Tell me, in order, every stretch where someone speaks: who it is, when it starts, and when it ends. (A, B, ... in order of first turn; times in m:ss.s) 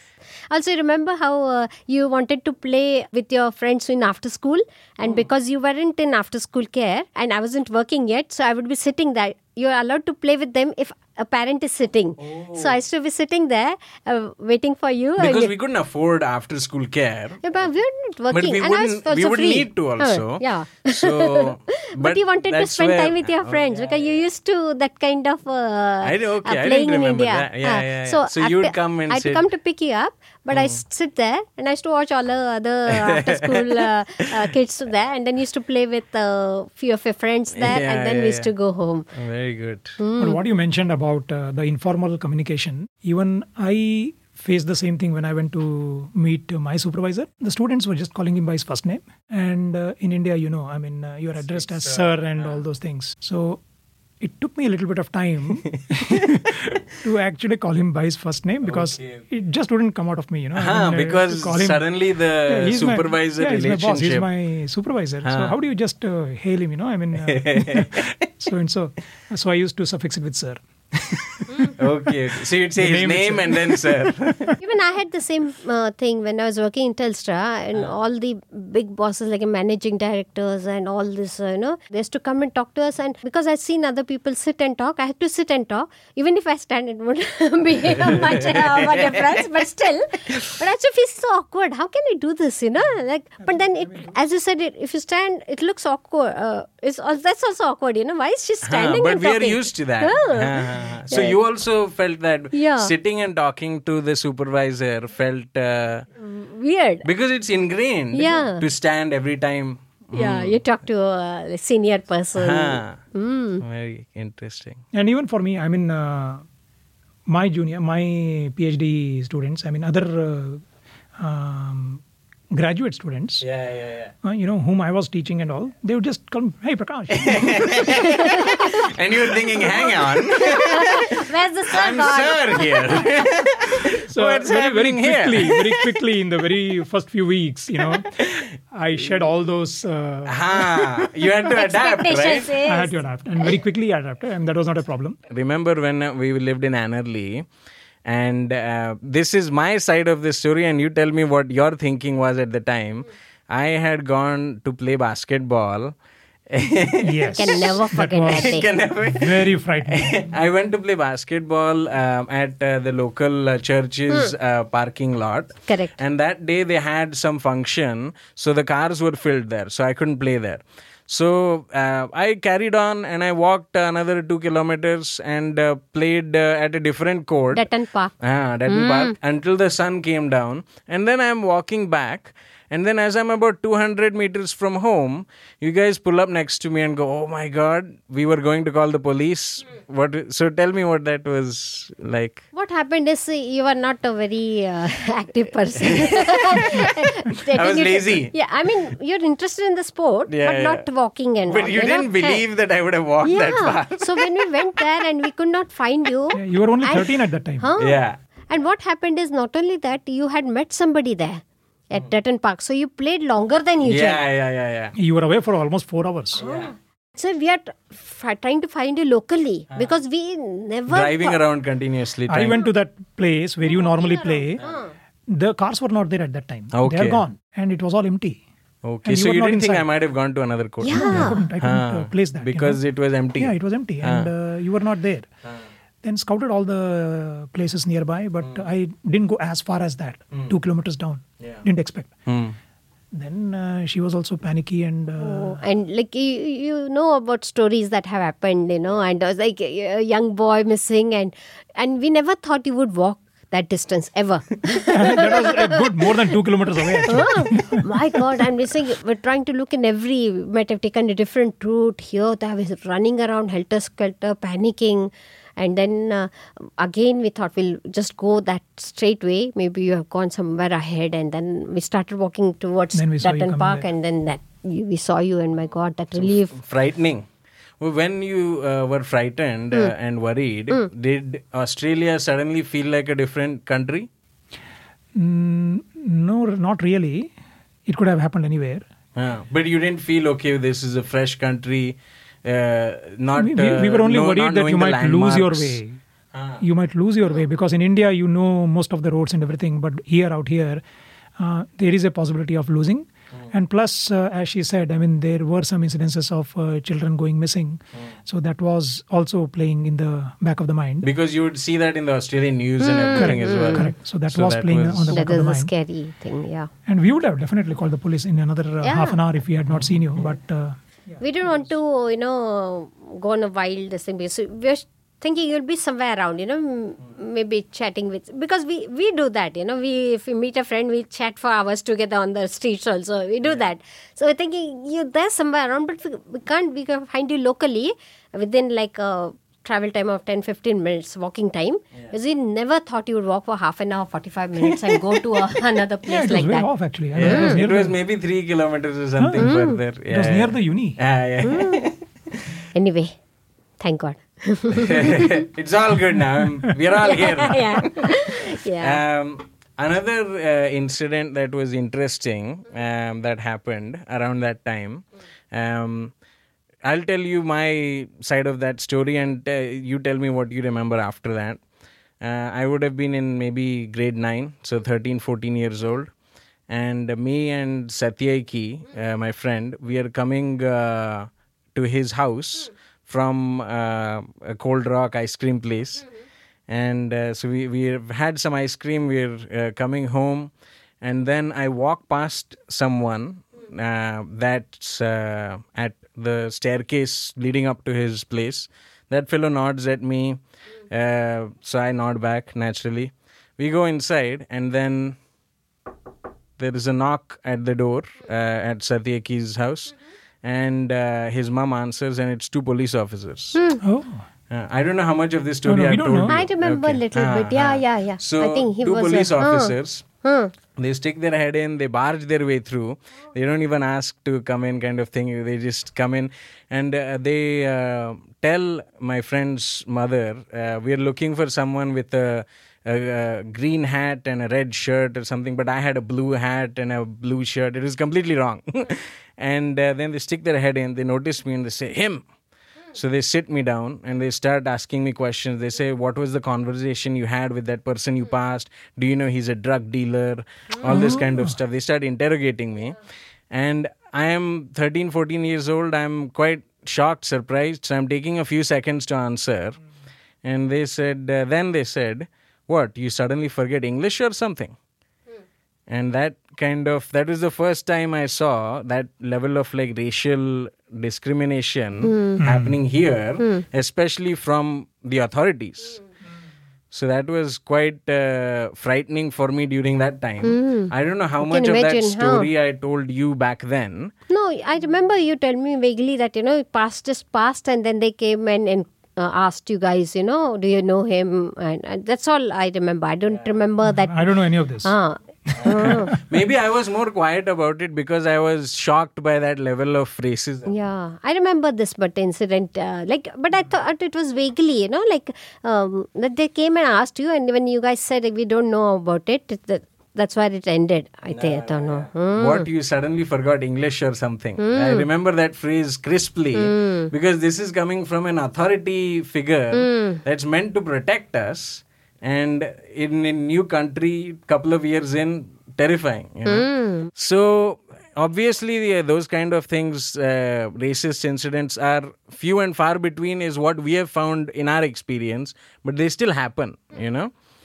0:00.5-0:15.5 A
0:12.2-0:12.8 B
0:15.2-0:17.4 B
0:17.4-0:39.1 A
0:18.3-0:24.2 B
0:26.0-0:29.4 B
0:30.5-0:30.8 B
0:32.9-0:33.9 B
0:37.6-0:38.5 B
0:39.1-0:40.0 B
0:40.0-0:40.4 A
0:40.2-0:53.6 C
0:51.4-0:52.5 B
0:54.2-1:01.8 C
0:56.0-0:56.3 B
0:58.6-0:59.2 B
1:00.6-1:04.3 B
1:02.4-1:14.5 C
1:05.2-1:05.5 B
1:07.2-1:08.2 B
1:11.6-1:14.6 B
1:14.6-1:41.4 A
1:28.1-1:29.2 B
1:33.4-1:34.1 C
1:38.6-1:46.0 B
1:42.5-1:42.9 A
1:46.2-1:47.0 A
1:47.0-1:50.6 B
1:48.1-1:48.6 A
1:50.1-1:53.6 A
1:52.4-1:53.0 B
1:53.6-1:54.8 B
1:54.9-1:56.4 C
1:57.3-2:00.6 C
2:01.2-2:02.0 C
2:02.5-2:03.4 C
2:03.4-2:04.1 B
2:04.2-2:08.0 C
2:07.1-2:16.0 B
2:08.1-2:08.8 A
2:09.6-2:13.2 A
2:13.8-2:21.3 C
2:17.9-2:18.4 B
2:20.2-2:22.5 B
2:21.4-2:22.9 A
2:22.6-2:25.2 C
2:25.3-2:27.4 B
2:28.0-2:35.9 B
2:36.5-2:37.7 B
2:37.0-2:40.2 C
2:37.3-2:38.7 A
2:38.2-2:57.7 B
2:45.7-2:45.9 A
2:57.5-2:58.1 A
2:58.2-3:12.4 B
2:58.7-2:59.1 A
3:12.5-3:22.4 A
3:15.8-3:18.3 B
3:20.3-3:20.8 B
3:21.5-3:24.4 B
3:23.2-3:34.2 A
3:26.3-3:27.7 C
3:27.8-3:28.2 B
3:33.8-3:34.9 B
3:35.0-3:36.4 C
3:36.4-3:41.4 A
3:36.4-3:36.7 B
3:40.9-3:42.6 B
3:42.3-3:44.6 C
3:43.7-3:44.9 A
3:45.3-3:48.4 C
3:46.7-3:47.2 B
3:48.8-3:54.3 B
3:49.0-3:49.9 C
3:50.8-3:51.4 A
3:50.9-3:52.8 C
3:53.4-3:55.2 C
3:56.0-4:02.1 C
4:02.3-4:02.6 B
4:03.1-4:05.6 C
4:05.2-4:16.1 A
4:14.9-4:17.8 C
4:17.0-4:36.6 A
4:32.9-4:33.8 C
4:36.2-4:37.2 B
4:37.8-4:44.1 B
4:45.2-4:47.3 C
4:47.9-4:48.8 C
4:49.2-4:55.8 B
4:53.3-4:56.0 C
4:56.3-4:56.6 B
4:56.6-5:00.8 C
5:01.4-5:11.1 C
5:11.0-5:15.2 B
5:12.8-5:13.9 A
5:13.1-5:15.7 C
5:15.1-5:16.7 A
5:16.8-5:20.8 C
5:18.8-5:19.2 A
5:21.2-5:46.7 A
5:46.1-5:48.0 C
5:47.1-5:52.0 B
5:47.2-5:47.6 A
5:49.2-5:49.5 C
5:49.4-5:49.8 A
5:50.1-5:51.0 C
5:51.4-5:51.8 A
5:52.7-5:53.1 A
5:53.8-5:55.4 A
5:54.7-6:06.1 B
5:57.0-5:59.0 A
6:06.8-6:11.6 B
6:12.2-6:16.1 B
6:16.7-6:26.0 B
6:26.7-6:30.5 B
6:31.0-6:45.2 B
6:46.6-6:53.6 B
6:53.5-6:53.8 A
6:53.8-6:54.2 C
6:54.5-7:00.0 B
6:55.6-6:56.4 C
6:56.3-7:00.5 A
7:00.8-7:22.2 B
7:22.9-7:33.0 B
7:30.8-7:31.6 C
7:33.5-7:39.8 B
7:40.4-7:44.8 B
7:45.9-7:56.0 B
7:52.0-7:52.4 A
7:52.4-7:52.8 C
7:56.9-8:04.1 B
8:00.4-8:02.5 A
8:04.3-8:16.2 A
8:13.8-8:14.9 C
8:15.5-8:16.2 C
8:15.6-8:20.7 B
8:20.7-8:32.7 A
8:31.3-8:57.3 B
8:34.6-8:35.0 A
8:36.5-8:37.1 A
8:39.7-8:40.2 A
8:46.4-8:47.1 A